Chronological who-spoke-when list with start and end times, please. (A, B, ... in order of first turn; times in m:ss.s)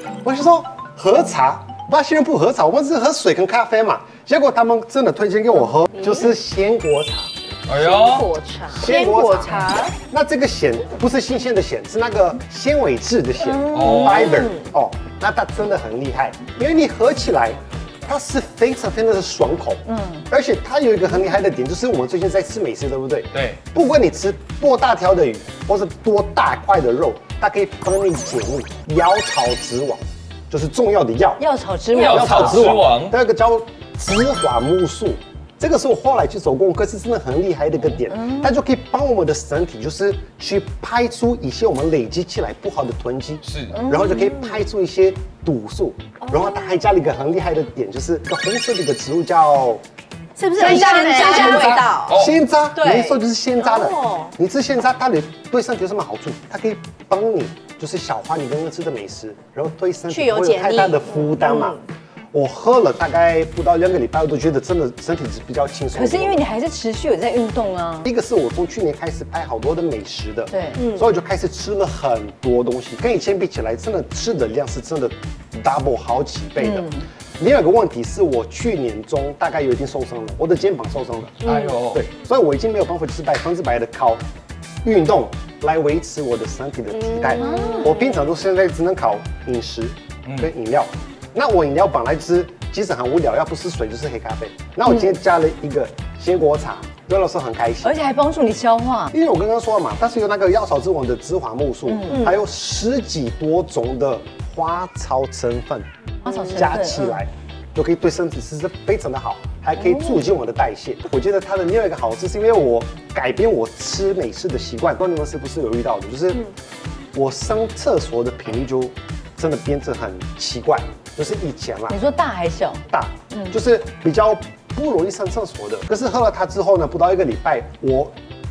0:00.2-0:07.3 A
0:06.0-0:06.3 B
0:07.7-0:08.3 C
0:07.7-0:08.9 B
0:08.7-0:49.8 A
0:08.8-0:10.0 D
0:13.7-0:14.2 C
0:13.8-0:14.6 B
0:19.9-0:20.2 E
0:23.3-0:23.6 C
0:31.4-0:32.7 E
0:31.9-0:33.2 C
0:38.1-0:38.5 E
0:43.4-0:43.8 C
0:43.7-0:44.3 E
0:50.4-0:52.2 D
0:50.6-1:01.8 A
0:50.6-0:51.8 E
0:52.0-0:52.3 C
0:52.7-0:53.2 D
0:53.7-0:54.3 D
1:00.1-1:01.8 D
1:02.3-1:06.4 A
1:05.9-1:08.0 E
1:08.0-1:21.4 A
1:10.5-1:10.8 E
1:10.8-1:11.0 D
1:16.6-1:17.0 E
1:21.4-1:22.0 C
1:21.4-1:21.7 B
1:21.9-1:24.2 A
1:24.8-1:38.0 A
1:27.3-1:28.0 E
1:37.8-1:39.1 E
1:39.1-1:45.9 A
1:41.8-1:42.3 E
1:46.2-1:47.2 E
1:46.4-1:56.5 A
1:49.8-1:50.2 E
1:57.1-2:02.0 A
2:01.9-2:03.6 E
2:02.9-2:08.1 A